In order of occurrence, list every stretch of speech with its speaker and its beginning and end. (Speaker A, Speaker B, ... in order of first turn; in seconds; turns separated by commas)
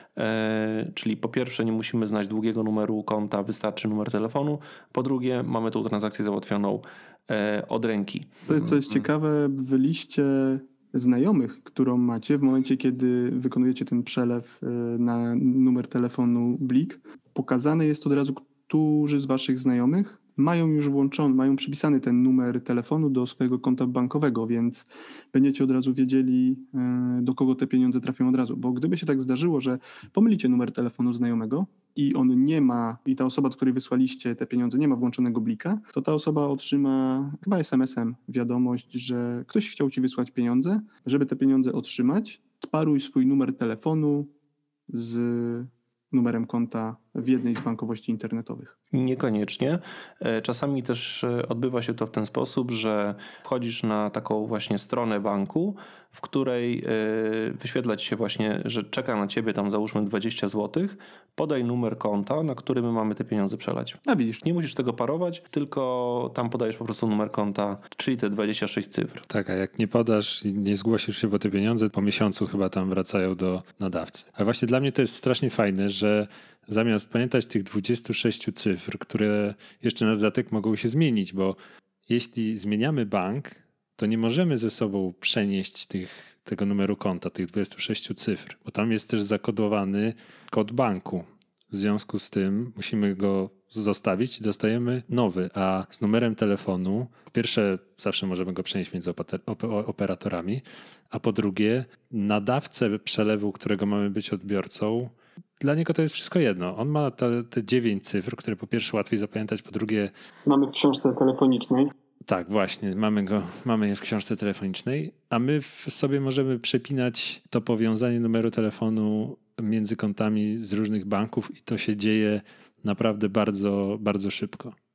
Speaker A: 0.2-9.1, Speaker B: 8.5-44.3, Speaker B: 44.9-48.8, Speaker A: 48.9-69.2, Speaker B: 64.1-64.4, Speaker C: 69.3-110.1, Speaker B: 110.5-111.9, Speaker C: 112.3-124.8